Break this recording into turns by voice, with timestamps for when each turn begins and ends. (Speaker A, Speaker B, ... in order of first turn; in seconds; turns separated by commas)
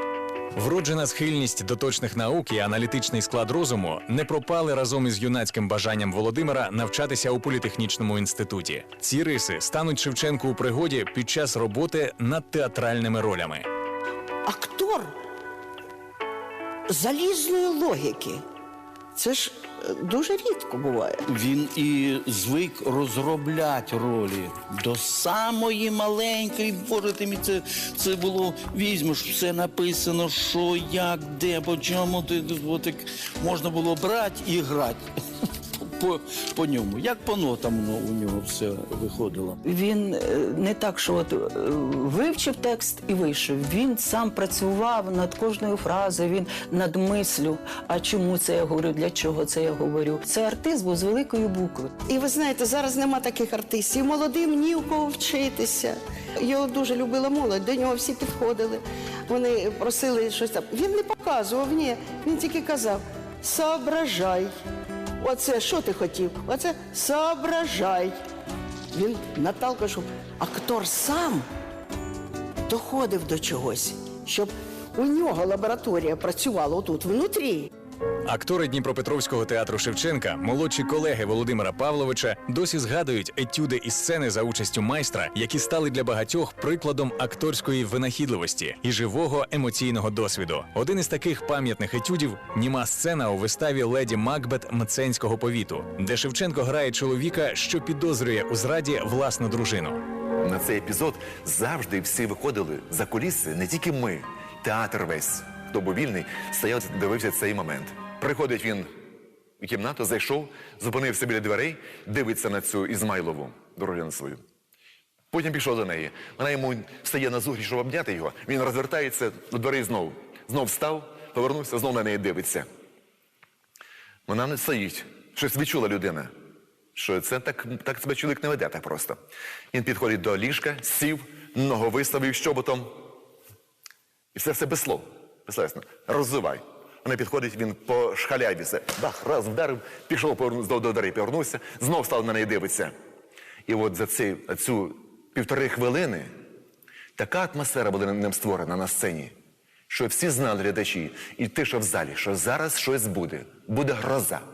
Speaker A: 0.5-13.7, Speaker B: 14.4-15.1, Speaker B: 16.9-18.4, Speaker B: 19.1-21.2, Speaker C: 21.3-35.0, Speaker C: 35.8-39.6, Speaker D: 39.6-51.9, Speaker B: 52.1-64.5, Speaker B: 65.2-68.2, Speaker B: 68.9-71.5, Speaker B: 72.7-77.7, Speaker A: 78.2-100.0, Speaker E: 100.4-108.9, Speaker E: 109.6-114.4, Speaker E: 115.3-122.7, Speaker E: 124.3-126.3, Speaker E: 126.9-129.2, Speaker E: 129.7-133.0, Speaker E: 134.3-142.9, Speaker E: 143.7-146.3, Speaker E: 147.2-149.3, Speaker E: 149.9-154.4